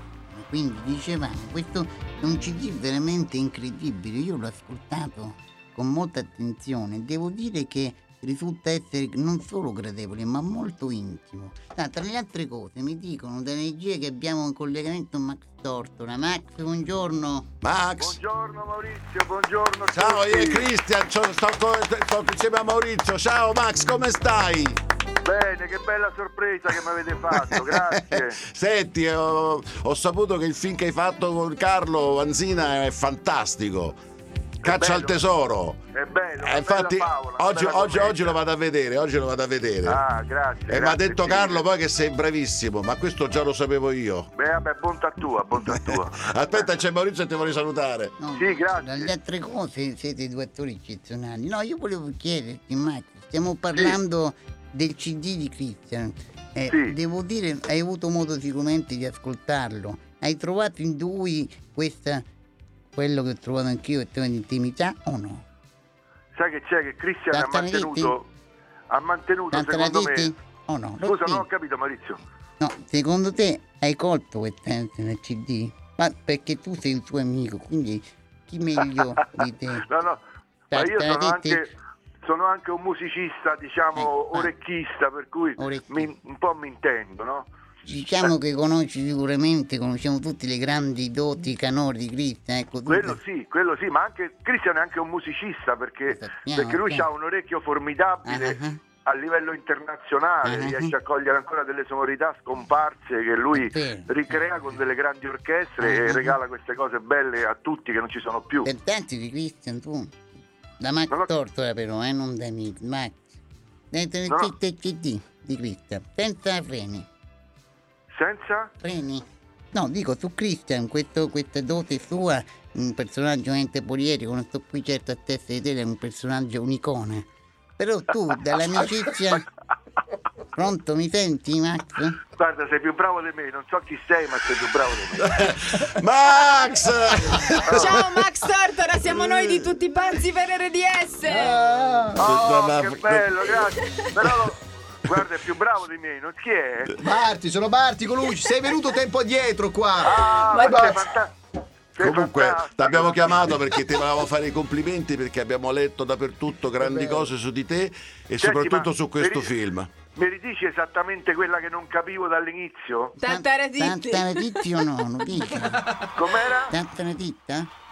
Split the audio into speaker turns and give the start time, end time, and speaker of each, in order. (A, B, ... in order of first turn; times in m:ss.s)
0:00.3-0:17.5 A
0:17.6-0:18.2 B
0:18.0-0:20.7 C
0:19.9-0:24.8 B
0:25.2-0:28.4 C
0:27.4-0:34.0 B
0:34.6-0:35.2 C
0:34.6-0:35.8 B
0:35.9-0:38.4 C
0:36.4-0:40.0 B
0:39.8-0:41.6 C
0:40.6-0:44.3 B
0:44.4-0:46.7 C
0:45.6-0:48.2 B
0:48.2-1:02.2 A
0:48.3-0:49.1 C
0:56.7-0:57.0 C
1:02.9-1:05.4 A
1:06.4-1:08.3 C
1:07.3-1:08.1 A
1:08.9-1:10.3 C
1:09.5-1:11.5 A
1:11.0-1:12.2 C
1:12.6-1:19.9 A
1:19.8-1:20.2 C
1:20.7-1:21.6 A
1:20.7-1:27.5 C
1:23.9-1:24.5 A
1:25.6-1:26.1 A
1:27.8-1:33.2 A
1:32.9-1:48.7 C
1:36.1-1:37.1 A
1:38.2-1:38.8 A
1:40.4-1:40.9 A
1:43.5-1:44.4 A
1:45.8-1:46.4 A
1:48.6-1:50.1 A
1:50.8-1:53.3 A
1:53.9-1:57.1 A
1:58.1-1:58.7 C
1:58.8-2:07.3 A
2:07.8-2:09.4 A
2:10.5-2:12.2 A
2:12.4-2:15.4 C
2:15.1-2:18.1 B
2:17.5-2:21.6 D
2:17.6-2:18.0 C
2:19.1-2:19.5 B
2:21.3-2:22.2 E
2:22.2-2:27.0 C
2:22.2-2:23.5 B
2:23.8-2:24.1 D
2:27.0-2:31.0 E
2:30.0-2:31.3 C
2:30.3-2:31.0 D
2:31.9-2:33.4 C
2:32.0-2:39.9 B
2:36.9-2:37.2 E
2:38.4-2:39.5 C
2:40.1-2:43.2 C
2:43.2-2:44.6 D
2:43.2-2:45.9 A
2:46.1-2:46.7 C
2:46.7-2:47.7 A